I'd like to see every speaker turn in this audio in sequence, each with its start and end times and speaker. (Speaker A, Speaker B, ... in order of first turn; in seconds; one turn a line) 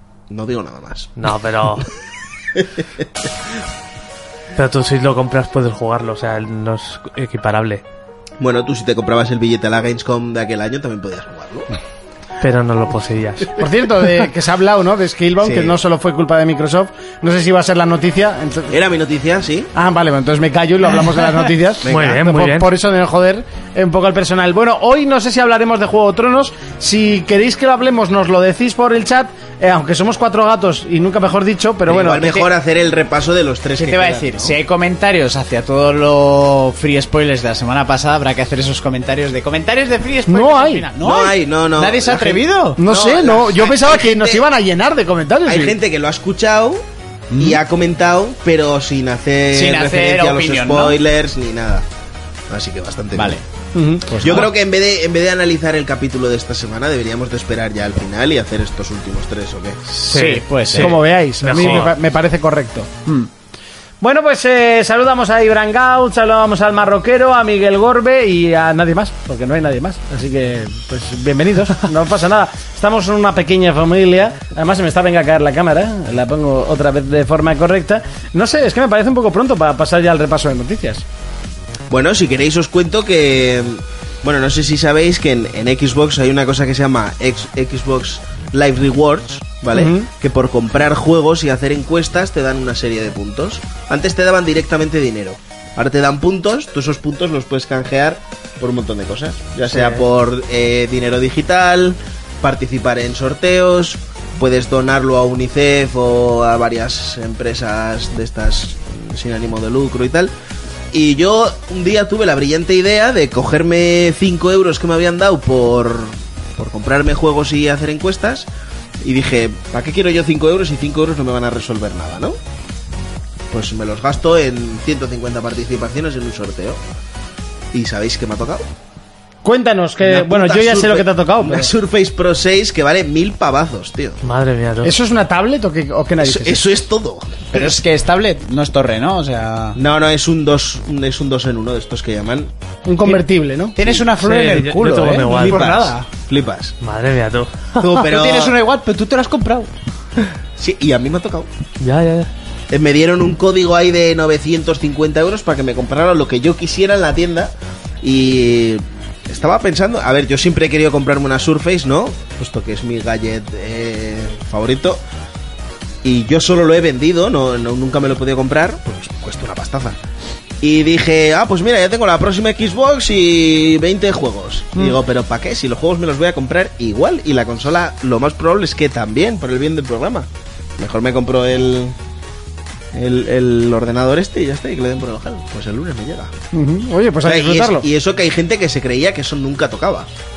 Speaker A: 0.3-1.1
Speaker B: 1.2-1.9
Speaker B: 4.5-7.8
Speaker A: 8.4-11.7
Speaker B: 12.4-13.5
Speaker C: 13.6-18.7
Speaker A: 15.4-15.8
Speaker A: 18.7-19.7
Speaker C: 19.7-32.5
Speaker A: 21.8-22.2
Speaker B: 21.9-22.7
Speaker A: 31.9-34.5
Speaker D: 33.7-42.8
Speaker C: 40.3-40.9
Speaker A: 41.0-44.4
Speaker C: 42.8-45.8
Speaker A: 45.4-46.8
Speaker D: 47.3-47.6
Speaker A: 47.4-51.8
Speaker D: 49.5-51.0
Speaker A: 52.5-53.4
Speaker D: 53.1-53.4
Speaker C: 53.7-54.5
Speaker D: 54.1-54.5
Speaker A: 54.2-59.8
Speaker D: 59.9-61.0
Speaker B: 60.1-61.9
Speaker C: 60.7-62.9
Speaker C: 64.0-81.0
Speaker A: 81.9-110.3
Speaker C: 89.7-90.1
Speaker B: 99.7-100.0
Speaker A: 110.9-118.5
Speaker A: 119.0-122.4
Speaker A: 123.5-126.8
Speaker A: 127.7-128.7
Speaker C: 129.4-131.7
Speaker A: 130.0-134.2
Speaker B: 134.2-134.9
Speaker C: 134.8-136.7
Speaker A: 136.2-137.6
Speaker D: 137.5-139.8
Speaker A: 139.8-142.5
Speaker C: 142.8-143.8
Speaker D: 143.8-146.1
Speaker A: 143.8-144.1
Speaker B: 144.2-145.7
Speaker A: 145.3-146.7
Speaker B: 146.8-148.0
Speaker A: 147.8-148.6
Speaker D: 148.0-149.7
Speaker A: 150.6-151.5
Speaker B: 151.8-152.3
Speaker A: 152.7-165.0
Speaker A: 166.0-170.0
Speaker A: 170.6-181.9
Speaker A: 182.9-186.3
Speaker C: 186.5-187.8
Speaker A: 187.2-190.1